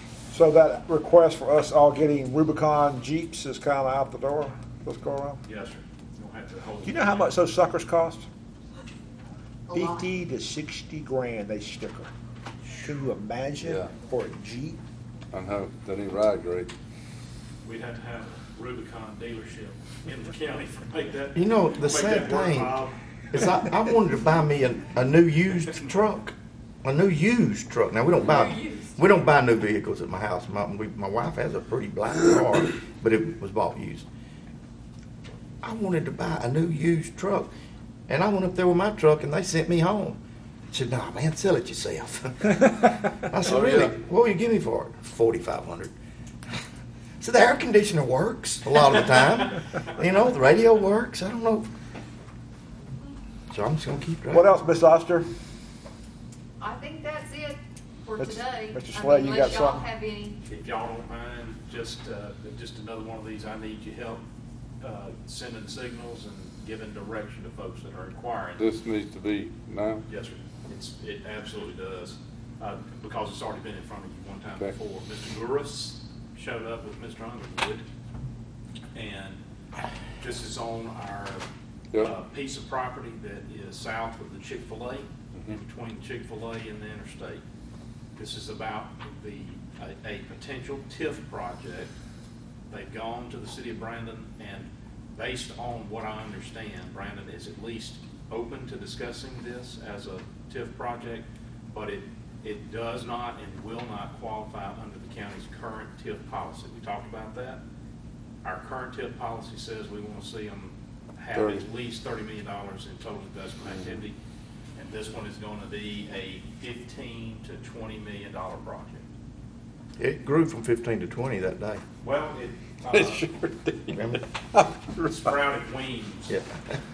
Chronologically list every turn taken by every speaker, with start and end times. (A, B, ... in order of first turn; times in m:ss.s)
0:00.3-0:05.4 A
0:05.4-0:07.3 B
0:06.8-0:08.3 A
0:09.7-0:10.1 C
0:09.7-0:12.1 A
0:12.8-0:14.8 A
0:13.6-0:13.9 D
0:15.3-0:16.7 D
0:17.6-0:23.0 B
0:21.3-0:34.1 E
0:35.6-0:37.5 E
0:38.1-0:40.2 E
0:40.7-0:45.9 E
0:43.4-0:44.0 D
0:47.2-0:51.7 E
0:53.5-0:54.5 E
0:54.3-0:55.3 A
0:56.6-1:00.4 C
0:58.2-0:59.8 A
1:00.5-1:04.2 B
1:04.8-1:08.6 B
1:08.6-1:10.1 D
1:10.1-1:17.9 B
1:18.9-1:19.4 B
1:20.2-1:21.5 B
1:22.0-1:27.4 B
1:28.2-1:31.9 B
1:32.7-1:47.6 B
1:48.4-1:54.2 B
1:51.3-1:51.7 D
1:53.6-1:54.0 D
1:54.8-1:59.0 B
2:00.0-2:01.8 E
2:02.0-2:03.2 B
2:02.9-2:05.3 D
2:03.9-2:04.2 E
2:05.1-2:06.4 B
2:06.3-2:06.6 E